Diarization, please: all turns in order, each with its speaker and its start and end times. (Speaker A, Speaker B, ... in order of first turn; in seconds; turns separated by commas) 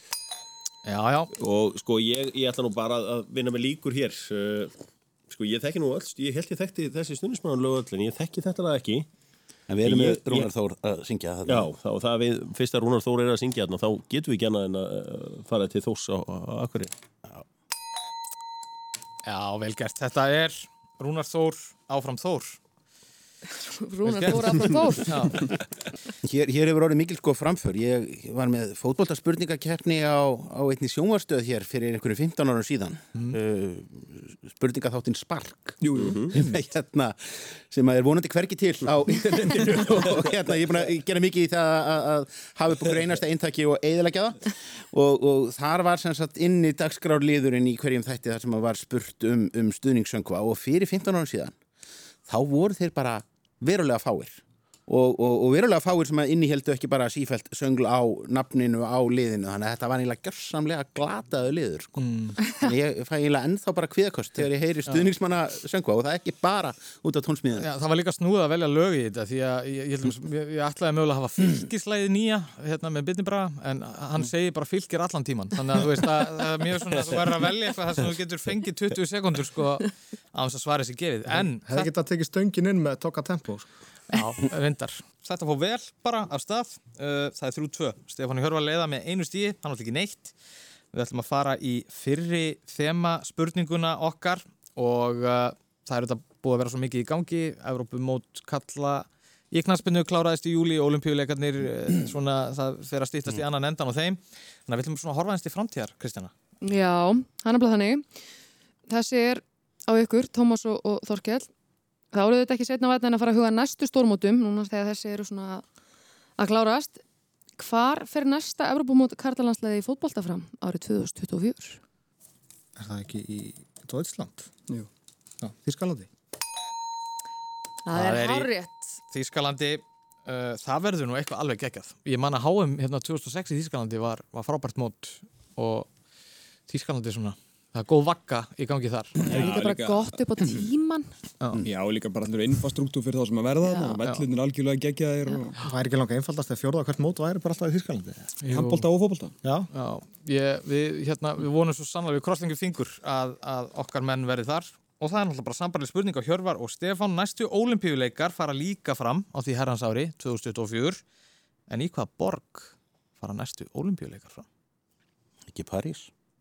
Speaker A: 0.9-1.3, Speaker B: 1.4-4.7, Speaker B: 5.3-9.1, Speaker C: 9.7-11.7, Speaker B: 9.8-10.5, Speaker B: 11.5-16.9, Speaker A: 19.2-22.6, Speaker D: 23.5-25.5, Speaker A: 24.1-25.5, Speaker C: 26.2-51.6, Speaker E: 35.8-36.2, Speaker B: 36.0-36.3, Speaker C: 52.2-67.7, Speaker A: 62.0-62.4, Speaker A: 67.6-81.9, Speaker F: 81.5-83.7, Speaker A: 84.1-90.3, Speaker A: 90.9-106.3, Speaker D: 106.6-108.1, Speaker D: 108.9-111.5, Speaker D: 112.1-115.6, Speaker D: 116.4-117.0, Speaker D: 117.6-121.8, Speaker F: 122.8-124.5, Speaker F: 125.4-126.1, Speaker D: 127.8-129.0, Speaker A: 127.9-128.5, Speaker A: 129.1-135.9, Speaker A: 136.7-139.2, Speaker E: 139.2-140.1, Speaker D: 139.3-141.1, Speaker E: 141.6-145.6, Speaker D: 143.6-144.0, Speaker F: 145.6-148.3, Speaker A: 148.4-148.9, Speaker E: 148.5-149.3, Speaker F: 149.4-149.7, Speaker A: 149.7-161.0, Speaker A: 161.7-164.5, Speaker C: 165.5-166.1